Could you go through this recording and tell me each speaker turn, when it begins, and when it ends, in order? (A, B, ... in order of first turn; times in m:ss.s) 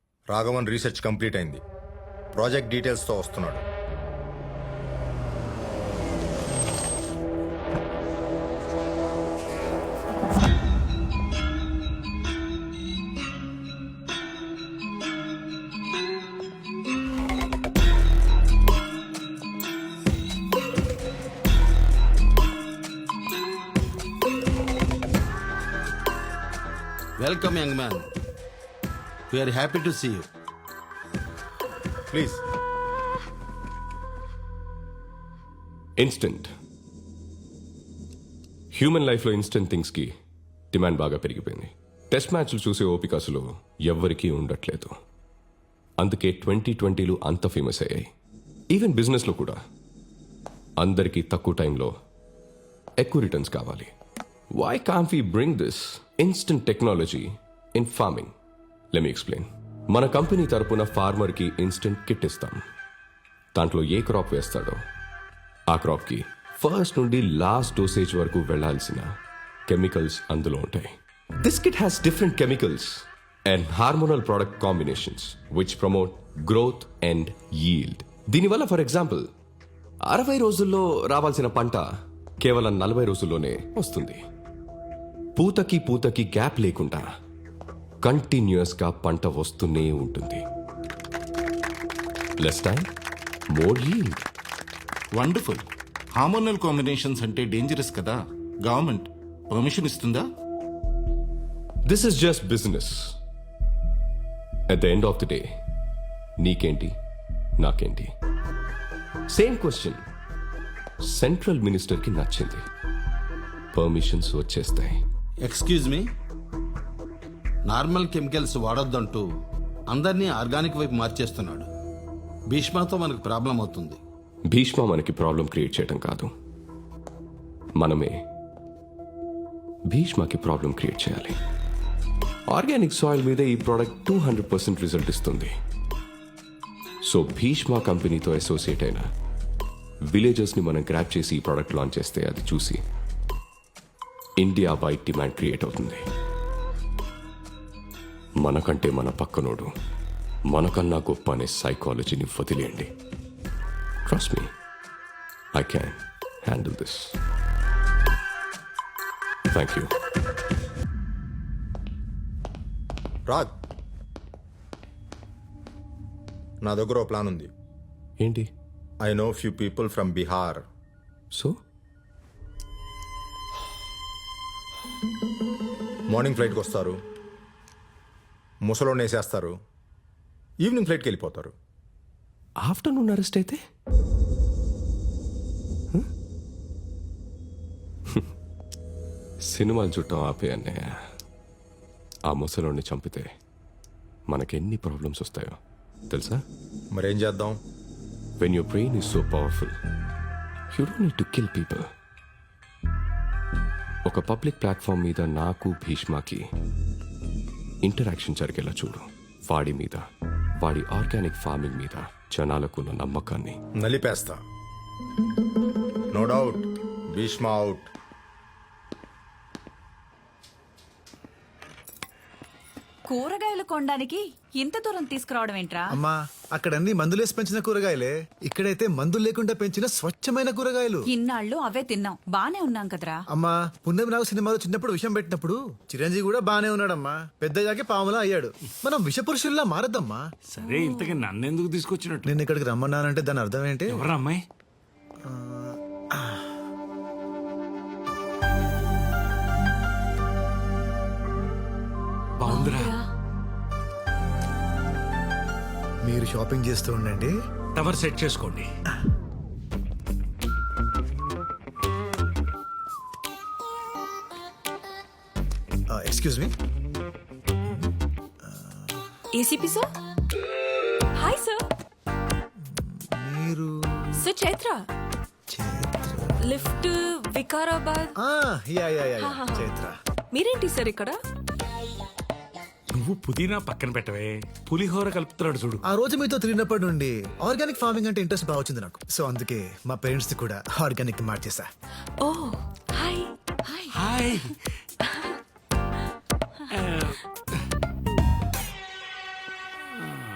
0:00.3-0:01.6 A
0:02.3-0:03.6 A
0:27.2-0:28.1 B
0:29.3-0:30.3 B
0:32.1-0:32.4 A
0:36.0-0:36.5 C
0:38.7-0:40.1 C
0:40.7-0:44.9 C
0:46.0-0:48.1 C
0:48.7-0:49.6 C
0:50.8-0:51.9 C
0:53.0-0:53.9 C
0:54.5-0:58.3 C
0:58.9-1:02.6 C
1:03.6-1:04.8 C
1:05.7-1:09.1 C
1:09.7-1:19.3 C
1:20.0-1:21.9 C
1:22.4-1:24.2 C
1:25.4-1:27.1 C
1:28.0-1:30.4 C
1:32.4-1:32.9 C
1:33.5-1:34.3 C
1:35.1-1:40.3 D
1:41.9-1:43.2 C
1:44.7-1:45.4 C
1:46.4-1:46.9 C
1:47.6-1:48.1 C
1:49.3-1:50.0 C
1:51.0-1:52.6 C
1:53.7-1:55.0 C
1:55.4-1:56.0 B
1:57.7-1:59.2 B
1:59.9-2:01.7 B
2:02.5-2:04.0 B
2:04.5-2:06.3 C
2:07.8-2:08.1 C
2:09.9-2:11.4 C
2:12.5-2:15.5 C
2:17.0-2:19.0 C
2:20.0-2:22.8 C
2:24.4-2:26.0 C
2:28.4-2:29.7 C
2:30.5-2:32.9 C
2:34.0-2:34.5 C
2:35.5-2:37.2 C
2:39.5-2:39.9 C
2:43.3-2:43.5 A
2:46.6-2:47.5 A
2:48.2-2:48.5 C
2:49.0-2:50.6 A
2:51.3-2:51.6 C
2:56.1-2:57.0 A
2:58.6-2:59.6 A
3:00.6-3:01.5 A
3:02.6-3:03.6 C
3:09.4-3:11.0 C
3:12.3-3:13.3 C
3:14.3-3:15.6 C
3:16.1-3:16.4 C
3:16.9-3:17.6 A
3:18.4-3:19.7 C
3:20.7-3:21.8 C
3:24.1-3:26.4 C
3:27.8-3:30.0 C
3:30.6-3:33.6 C
3:33.8-3:34.4 A
3:36.1-3:37.9 A
3:43.1-3:46.0 E
3:45.9-3:51.1 F
3:51.1-3:53.2 E
3:53.3-4:00.2 F
4:00.5-4:02.3 G
4:02.2-4:04.0 F
4:03.9-4:04.4 G
4:05.2-4:06.5 F
4:12.4-4:12.9 G
4:12.4-4:13.1 H
4:16.0-4:17.3 F
4:17.8-4:18.7 G
4:25.9-4:26.5 F
4:28.4-4:29.0 F
4:29.3-4:29.8 H
4:31.2-4:31.6 H
4:32.7-4:33.7 F
4:34.2-4:34.8 H
4:35.5-4:36.3 F
4:36.5-4:38.1 H
4:38.2-4:39.9 F
4:39.2-4:39.7 H
4:40.3-4:41.1 H
4:42.9-4:45.8 G
4:45.8-4:51.7 F
4:52.2-4:53.3 H
4:53.9-4:54.4 G